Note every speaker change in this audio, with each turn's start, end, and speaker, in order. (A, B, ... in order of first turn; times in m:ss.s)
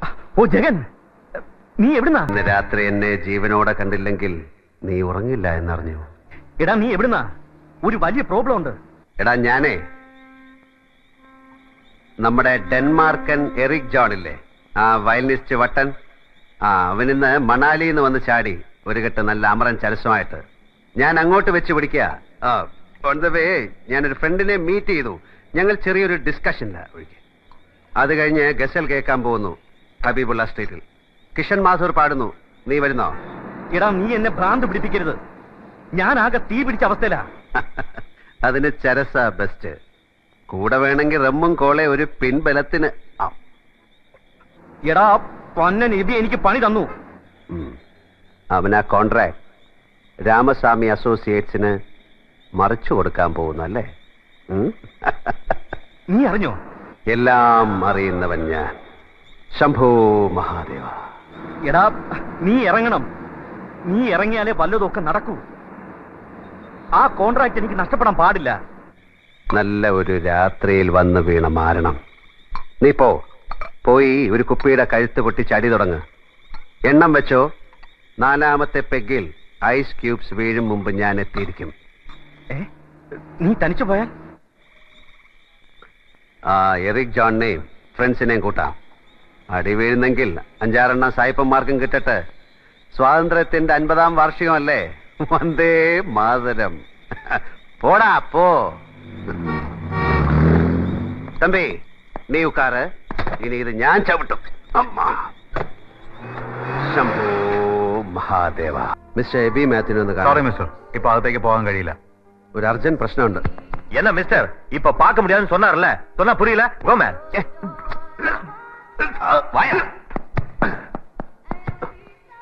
0:00.4-0:00.8 A
0:01.8-0:02.3 A
0:02.3-0:04.4 B
0:04.9-0:06.0 B
0:06.6-0:07.2 A
0:07.8-0:08.8 A
0:09.2-0:09.8 B
0:12.2-0:15.9 B
0:16.6-0:20.4 B
0:21.0-0:27.2 B
0:28.0-0:30.8 B
0:31.4-0:33.1 B
0:33.7-0:35.2 A
0:36.0-0:37.2 A
0:37.6-0:37.9 B
0:38.4-0:39.7 B
0:40.5-0:43.4 B
0:44.9-0:46.9 A
0:48.5-0:49.4 B
0:50.2-0:51.7 B
0:52.6-0:53.8 B
0:54.5-0:55.5 B
0:56.1-0:56.6 A
0:57.1-0:58.7 B
0:59.6-1:00.9 B
1:01.6-1:03.0 A
1:03.9-1:05.4 A
1:07.0-1:08.6 A
1:09.5-1:12.0 B
1:12.8-1:13.1 B
1:13.8-1:16.0 B
1:16.9-1:17.4 B
1:18.2-1:21.7 B
1:23.4-1:24.1 A
1:26.5-1:28.7 B
1:29.5-1:32.2 B
1:32.9-1:38.7 B
1:41.4-1:41.7 B
1:42.3-1:42.8 B
1:43.4-1:45.3 B
1:46.9-1:50.4 B
1:50.2-1:51.9 C
1:52.6-1:53.4 B
1:54.0-1:57.2 C